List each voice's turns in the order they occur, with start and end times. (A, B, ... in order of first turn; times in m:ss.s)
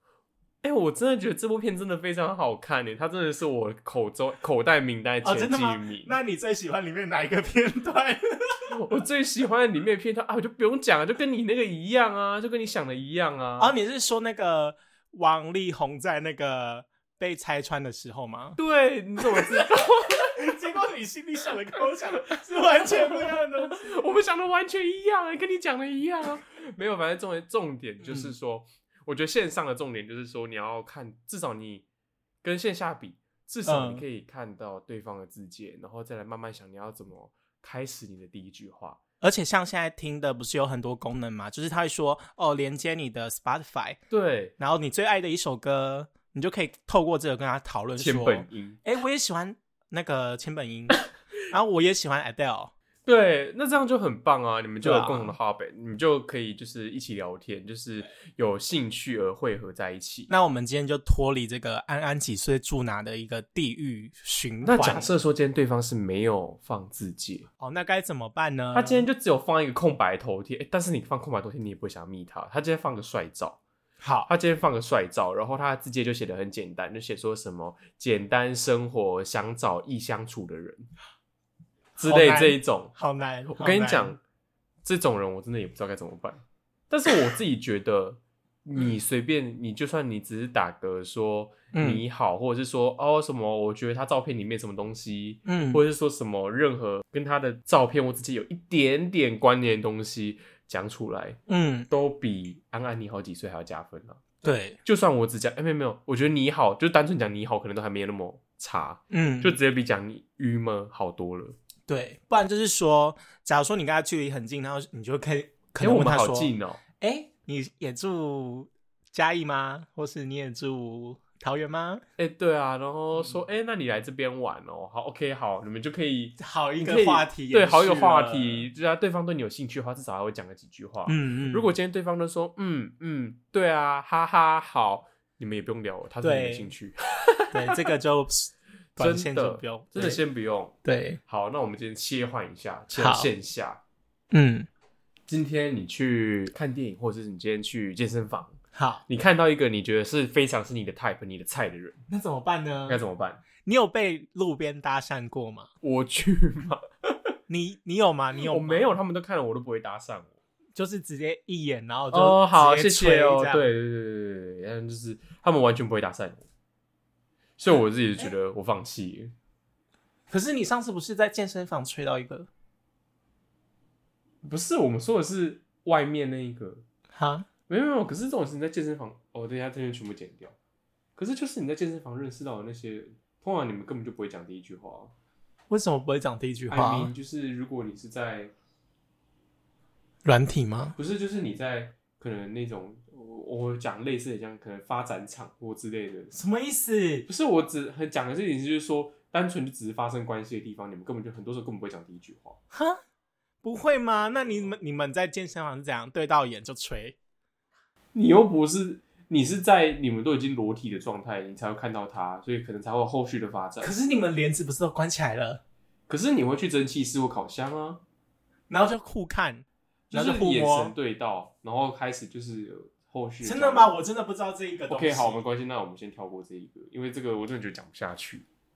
0:00.6-0:06.2 A
0:05.2-0:08.8 B
0:08.7-0:13.7 A
0:13.6-0:18.6 B
0:18.6-0:20.4 A
0:19.2-0:19.7 B
0:20.3-0:23.9 B
0:22.8-0:31.8 A
0:28.0-0:28.3 B
0:32.4-0:39.0 A
0:33.6-0:34.0 B
0:39.2-0:44.0 B
0:44.1-0:44.5 A
0:44.6-0:52.7 B
0:48.0-0:48.8 A
0:53.0-1:00.3 A
0:54.8-0:55.3 B
1:00.3-1:05.1 B
1:04.6-1:07.5 A
1:07.6-1:09.0 B
1:08.7-1:13.6 A
1:14.0-1:14.3 B
1:14.2-1:20.9 A
1:22.0-1:24.1 B
1:22.0-1:22.9 A
1:23.5-1:24.2 A
1:24.8-1:41.4 A
1:31.7-1:32.0 B
1:35.4-1:35.8 B
1:41.5-1:41.9 B
1:41.9-1:44.2 A
1:44.4-1:44.8 B
1:44.8-1:51.5 A
1:49.1-1:49.6 B
1:51.9-2:02.0 B
1:55.8-1:56.8 A
2:02.2-2:17.7 A
2:06.4-2:08.7 B
2:11.0-2:11.7 B
2:16.2-2:16.7 B
2:17.5-2:20.2 B
2:19.0-2:20.7 A
2:20.8-2:21.2 B
2:21.3-2:23.8 A
2:22.9-2:23.3 B
2:24.3-2:24.7 B
2:25.3-2:32.0 A
2:28.7-2:29.0 B
2:32.1-2:33.0 B
2:32.9-2:33.4 A
2:33.6-2:35.7 B
2:35.8-2:37.2 A
2:37.5-2:38.9 B
2:38.4-2:40.3 A
2:40.7-2:43.6 B
2:42.1-2:46.4 A
2:47.6-2:49.3 A
2:47.7-2:48.3 B
2:50.3-2:52.5 B
2:54.4-2:56.8 A
2:57.1-2:57.5 B
2:57.7-3:00.5 A
3:01.2-3:05.1 A
3:05.7-3:07.1 B
3:06.7-3:08.5 A
3:10.2-3:11.0 B
3:11.0-3:16.4 A
3:16.3-3:17.2 B
3:17.3-3:22.6 A
3:22.7-3:23.0 B
3:23.6-3:27.2 B
3:28.1-3:33.9 A
3:33.8-3:35.6 B
3:36.1-3:38.0 A
3:38.7-3:40.9 B
3:40.1-3:43.9 A
3:43.4-3:45.4 B
3:44.9-3:48.4 A